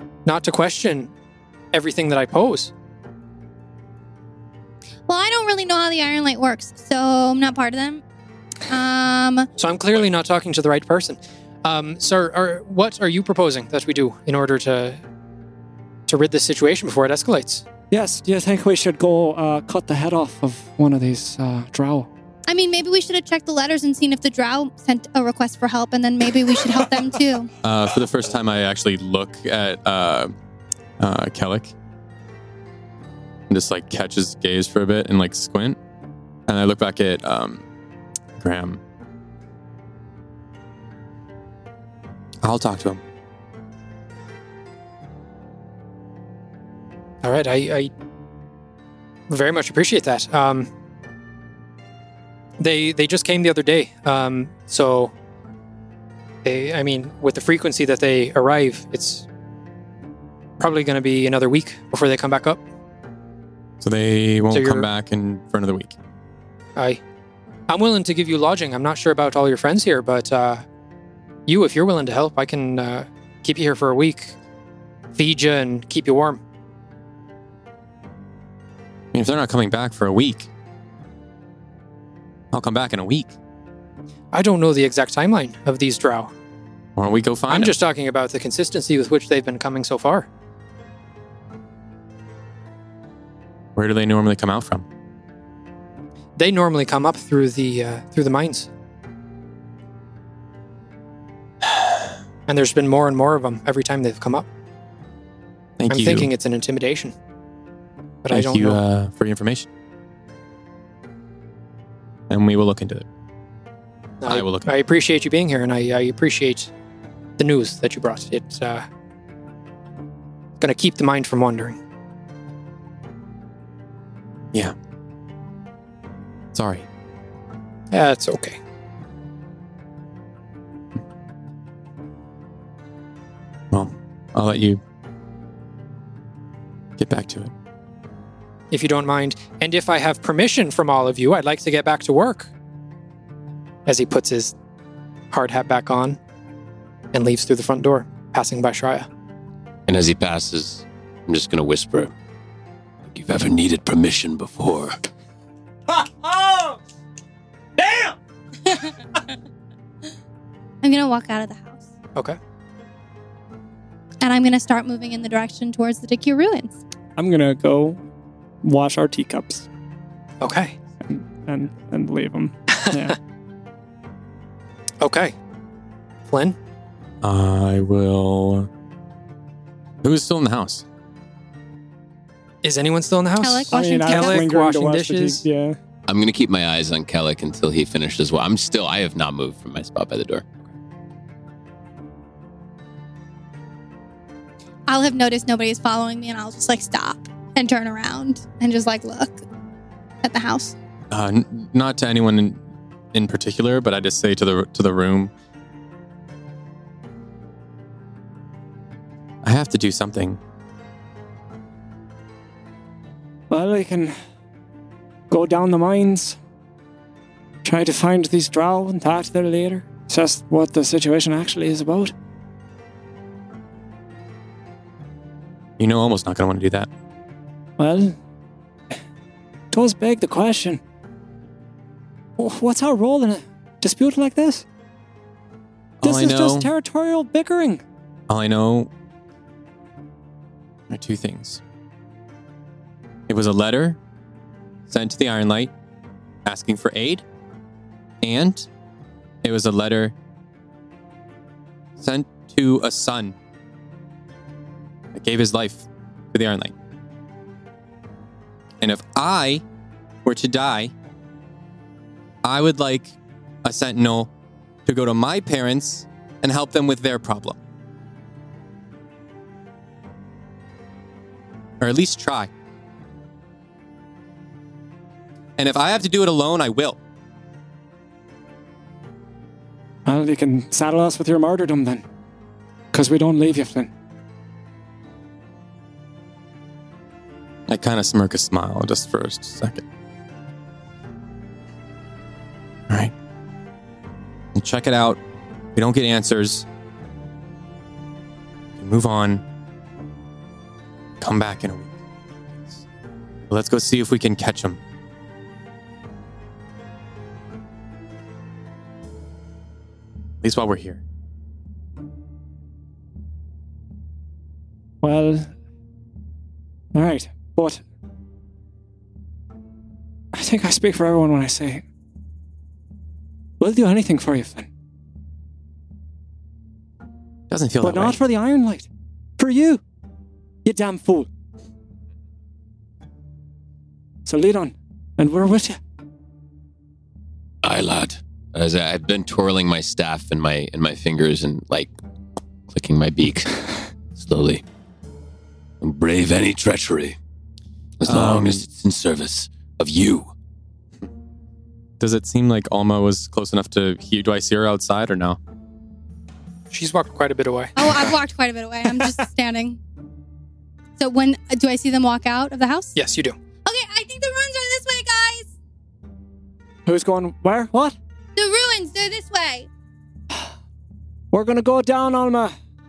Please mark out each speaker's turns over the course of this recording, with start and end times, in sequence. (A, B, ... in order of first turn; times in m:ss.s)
0:00.3-0:01.1 A
0:01.7-0:02.7 A
0:05.1-0:08.0 B
0:08.6-0:09.5 B
0:09.6-0:15.0 A
0:16.1-0:17.6 A
0:17.9-0:22.1 C
0:22.5-0:27.5 B
0:27.6-0:30.3 D
0:31.0-0:31.7 D
0:33.5-0:35.8 D
0:36.5-0:37.6 D
0:38.4-0:38.8 D
0:42.4-0:43.0 D
0:47.2-0:47.9 A
0:49.3-0:50.7 A
0:52.6-0:55.1 A
0:56.4-0:59.3 A
1:00.6-1:02.6 A
1:03.8-1:06.0 D
1:04.5-1:04.9 A
1:06.8-1:07.0 A
1:07.7-1:10.6 A
1:11.5-1:14.4 A
1:15.1-1:16.4 A
1:19.1-1:20.5 D
1:22.5-1:23.4 D
1:24.3-1:26.3 A
1:27.0-1:27.8 D
1:27.5-1:30.3 A
1:33.8-1:34.9 D
1:36.4-1:38.7 A
1:42.5-1:44.5 A
1:45.8-1:46.3 D
1:45.9-1:47.1 A
1:48.2-1:48.8 A
1:48.3-1:49.7 D
1:52.3-1:53.1 D
1:54.2-1:56.7 A
1:54.2-1:54.7 D
1:57.4-1:58.8 A
2:00.6-2:01.8 A
2:06.5-2:06.9 D
2:07.9-2:08.6 A
2:13.7-2:14.8 D
2:17.0-2:17.5 D
2:18.7-2:22.5 A
2:23.9-2:24.6 A
2:25.3-2:26.2 A
2:27.1-2:29.1 A
2:29.9-2:32.1 E
2:33.1-2:34.8 E
2:33.3-2:34.8 F
2:35.9-2:36.8 C
2:37.8-2:38.2 C
2:40.8-2:41.8 B
2:44.2-2:46.8 B
2:47.2-2:48.0 C
2:48.6-2:49.7 C
2:50.4-2:50.8 A
2:51.1-2:53.2 C
2:55.0-2:55.4 A
2:56.3-2:56.6 A
2:57.2-2:58.7 D
3:00.0-3:00.8 D
3:02.6-3:05.4 A
3:03.4-3:04.5 B
3:03.7-3:05.8 C
3:06.1-3:10.5 E
3:14.9-3:19.4 B
3:20.2-3:20.8 B
3:21.1-3:22.6 D
3:23.1-3:25.3 D
3:29.4-3:30.4 D
3:33.5-3:34.2 C
3:35.3-3:36.4 C
3:37.6-3:42.1 C
3:45.8-3:46.9 D
3:47.8-3:48.2 C
3:49.7-3:50.8 C
3:52.4-3:54.7 C
3:56.0-3:56.7 D
3:56.0-3:57.8 C
3:58.3-3:58.9 D
4:00.9-4:01.6 D
4:03.3-4:04.0 D
4:04.9-4:05.7 D
4:06.4-4:07.2 D
4:08.2-4:08.7 D
4:09.4-4:10.1 D
4:12.0-4:13.4 D
4:15.1-4:16.7 D
4:18.8-4:19.6 D
4:20.2-4:20.9 D
4:22.4-4:24.3 D
4:24.9-4:27.6 D
4:31.8-4:32.5 D
4:35.6-4:37.0 D
4:40.1-4:42.0 C
4:42.9-4:43.9 C
4:47.7-4:49.8 D
4:54.6-4:55.2 D
4:55.8-4:56.7 D
4:58.8-4:59.4 D
5:01.2-5:02.8 D
5:03.5-5:04.8 D
5:10.4-5:11.0 D
5:15.0-5:15.5 C
5:16.9-5:17.8 C
5:20.3-5:21.8 C
5:23.6-5:24.7 C
5:27.5-5:28.2 D
5:27.8-5:29.8 C
5:30.6-5:31.3 C
5:34.3-5:35.8 C
5:37.6-5:41.9 E
5:42.7-5:43.6 E
5:44.2-5:44.6 E
5:45.8-5:46.2 E
5:45.9-5:47.2 F
5:48.0-5:50.3 E
5:48.1-5:48.6 D
5:48.1-5:48.4 F
5:52.0-5:55.4 D
5:56.7-5:57.8 A
5:57.8-5:59.8 B
6:01.0-6:03.0 B
6:03.0-6:03.4 A
6:03.6-6:05.5 B
6:06.9-6:08.0 C
6:08.4-6:09.7 B
6:11.3-6:12.6 C